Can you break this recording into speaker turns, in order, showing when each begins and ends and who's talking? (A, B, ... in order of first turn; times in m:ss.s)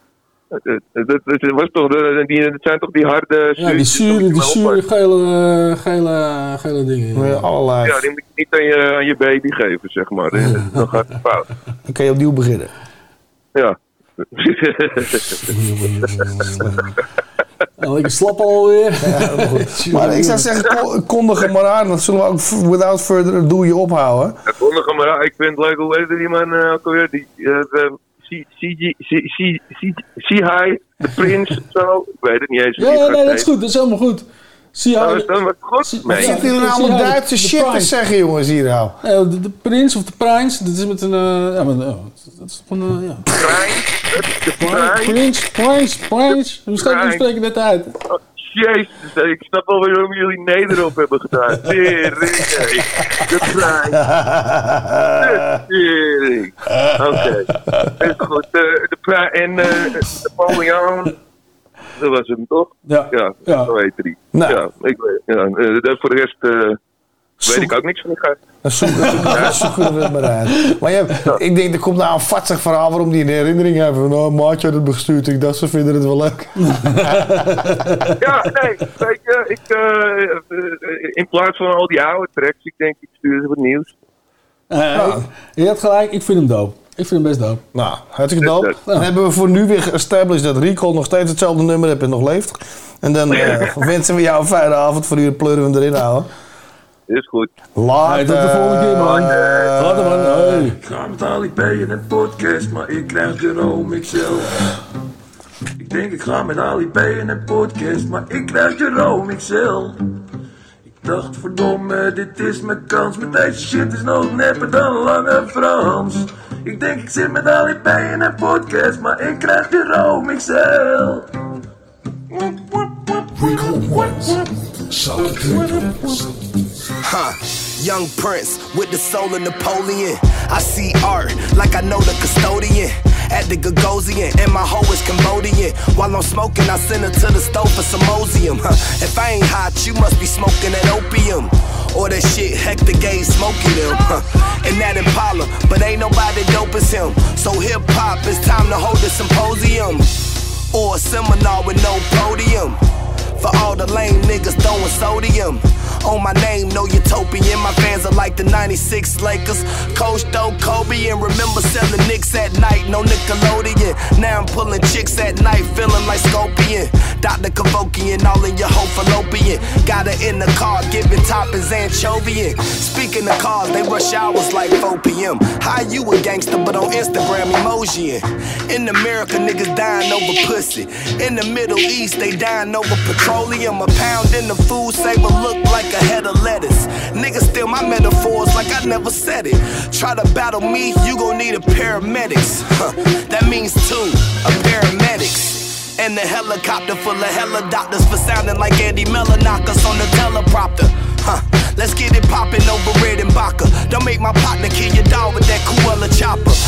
0:00.5-0:04.8 A
0:03.6-0:07.5 B
0:07.2-0:08.0 C
0:07.8-0:11.4 A
0:10.6-0:10.9 B
0:11.9-0:12.7 C
0:14.3-0:15.4 A
0:15.5-0:17.0 B
0:17.8-0:20.5 B
0:19.0-0:24.4 C
0:24.5-0:33.5 A
0:32.8-0:37.9 B
0:35.0-0:36.4 A
0:36.1-0:39.0 C
0:39.0-0:43.3 B
0:43.4-0:45.2 A
0:44.6-0:47.9 B
0:46.8-0:47.2 A
0:48.4-0:54.0 A
0:53.9-0:55.6 C
0:55.2-0:57.5 A
0:58.0-1:01.1 A
1:02.0-1:06.8 A
1:02.9-1:03.7 B
1:04.3-1:04.6 C
1:07.4-1:08.4 A
1:07.5-1:07.7 C
1:08.6-1:17.7 C
1:08.8-1:10.1 B
1:16.7-1:18.2 B
1:18.2-1:23.9 A
1:24.7-1:27.6 B
1:24.9-1:25.3 C
1:27.7-1:36.3 C
1:28.4-1:28.7 A
1:33.3-1:33.7 A
1:37.1-1:37.5 A
1:37.8-1:40.7 C
1:38.1-1:40.8 B
1:39.0-1:39.7 A
1:40.9-1:44.4 D
1:45.8-1:50.0 D
1:51.0-2:01.3 D
2:07.8-2:09.9 E
2:11.4-2:12.2 E
2:14.0-2:30.0 E
2:30.7-2:32.7 E
2:33.4-2:40.0 E
2:41.0-2:42.9 E
2:44.0-2:44.4 E
2:45.7-2:46.6 E
2:47.8-3:12.6 E
3:13.3-3:20.7 E
3:23.8-3:24.4 E